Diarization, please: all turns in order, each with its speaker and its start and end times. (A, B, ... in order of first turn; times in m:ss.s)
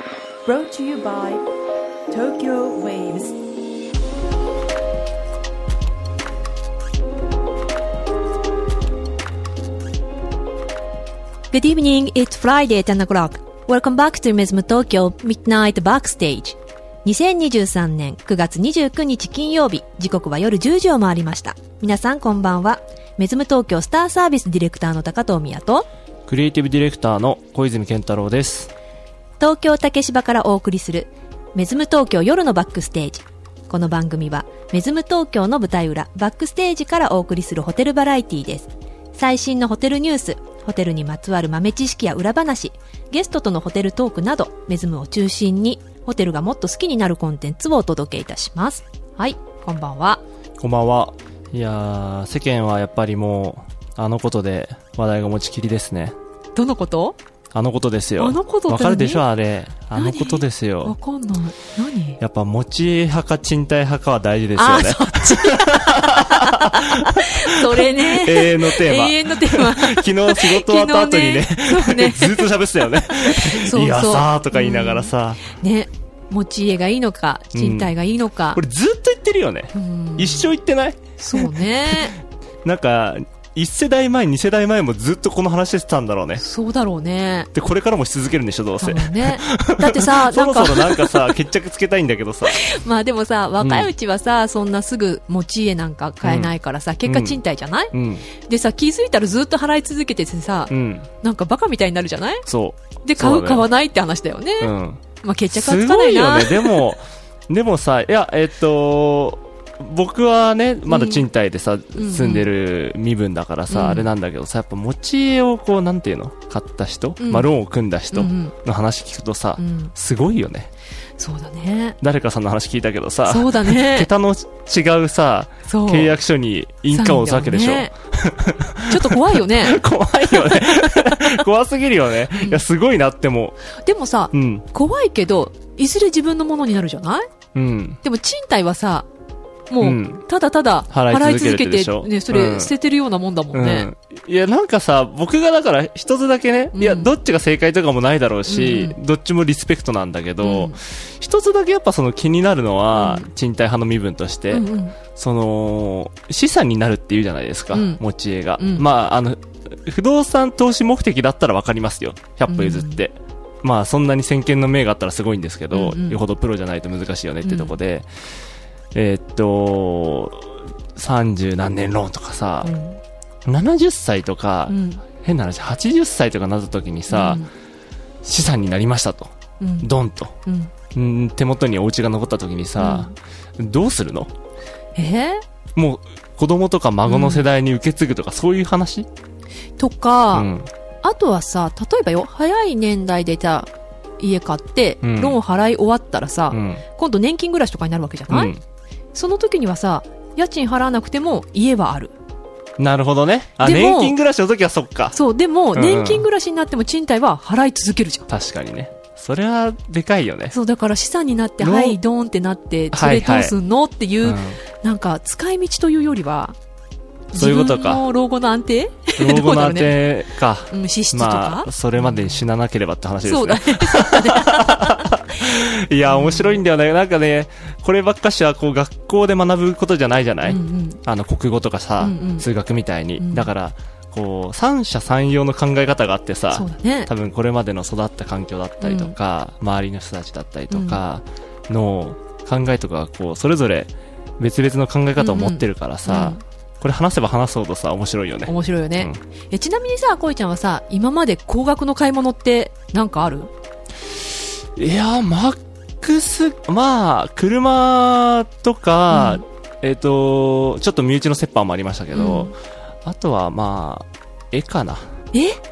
0:00.4-0:01.4 A
0:02.1-0:03.4 A
0:11.5-0:25.9 B
0:26.3-0:28.7 C
0:29.4-0:50.2 B
0:50.6-0:56.2 C
0:56.6-0:57.2 B
0:57.5-1:01.0 C
0:58.2-0:59.2 B
0:59.9-1:02.2 B
1:02.2-1:15.4 C
1:04.6-1:12.5 B
1:13.1-1:18.6 B
1:17.5-1:17.9 C
1:18.5-1:26.4 C
1:19.7-1:20.5 B
1:21.2-1:22.2 B
1:26.4-1:27.5 B
1:27.5-1:32.6 C
1:28.8-1:31.3 B
1:32.5-1:42.5 B
1:33.6-1:33.9 C
1:36.2-1:36.5 C
1:37.0-1:37.4 C
1:37.9-1:38.2 C
1:40.7-1:41.1 C
1:42.4-1:43.7 C
1:43.0-1:46.9 B
1:44.6-2:00.7 C
1:50.9-1:51.2 B
1:52.0-1:52.5 B
1:53.7-1:54.1 B
1:57.2-1:57.5 B
1:58.1-1:58.5 B
1:59.6-1:59.9 B
2:01.2-2:02.0 B
2:02.0-2:13.6 C
2:03.3-2:04.1 B
2:05.7-2:06.2 B
2:06.9-2:07.9 B
2:08.9-2:09.8 B
2:10.3-2:10.8 B
2:12.4-2:12.6 B
2:13.8-2:17.2 B
2:14.3-2:14.6 C
2:17.5-2:18.0 C
2:18.0-2:19.1 B
2:19.7-2:23.9 B
2:19.8-2:20.2 C
2:20.9-2:22.7 C
2:23.5-2:48.1 C
2:26.7-2:27.1 B
2:28.5-2:29.0 B
2:30.4-2:30.8 B
2:32.9-2:33.3 B
2:34.5-2:35.0 B
2:37.7-2:38.0 B
2:38.6-2:38.8 B
2:42.5-2:43.0 B
2:45.7-2:46.2 B
2:47.4-2:47.7 B
2:48.9-2:52.7 C
2:52.6-2:53.0 B
2:53.4-2:57.4 C
2:54.7-2:55.0 B
2:57.1-2:57.5 B
2:58.2-3:00.3 C
2:59.6-2:59.9 B
3:00.4-3:00.7 B
3:00.9-3:04.3 C
3:02.8-3:03.1 B
3:05.0-3:05.4 B
3:05.8-3:09.1 C
3:07.1-3:07.4 B
3:09.8-3:10.5 B
3:10.3-3:10.7 C
3:11.0-3:18.6 B
3:15.0-3:15.4 C
3:16.5-3:16.8 C
3:18.3-3:18.6 C
3:19.1-3:22.1 B
3:22.8-3:25.2 C
3:23.6-3:24.2 B
3:25.1-3:28.3 B
3:25.7-3:26.2 C
3:28.3-3:30.5 C
3:30.5-3:36.6 B
3:31.6-3:32.0 C
3:32.9-3:33.5 C
3:34.2-3:34.6 C
3:37.3-3:40.0 B
3:37.3-3:38.0 C
3:39.2-4:09.2 C
3:40.7-3:42.4 B
3:43.2-3:45.1 B
3:46.0-3:46.6 B
3:50.4-3:51.0 B
3:52.0-3:52.5 B
3:53.2-3:53.5 B
3:56.5-3:57.1 B
3:58.8-3:59.1 B
4:00.7-4:01.0 B
4:05.2-4:06.4 B
4:08.4-4:13.5 B
4:14.1-4:22.5 C
4:19.1-4:19.4 B
4:22.1-4:22.5 B
4:23.0-4:25.1 C
4:25.3-4:25.6 B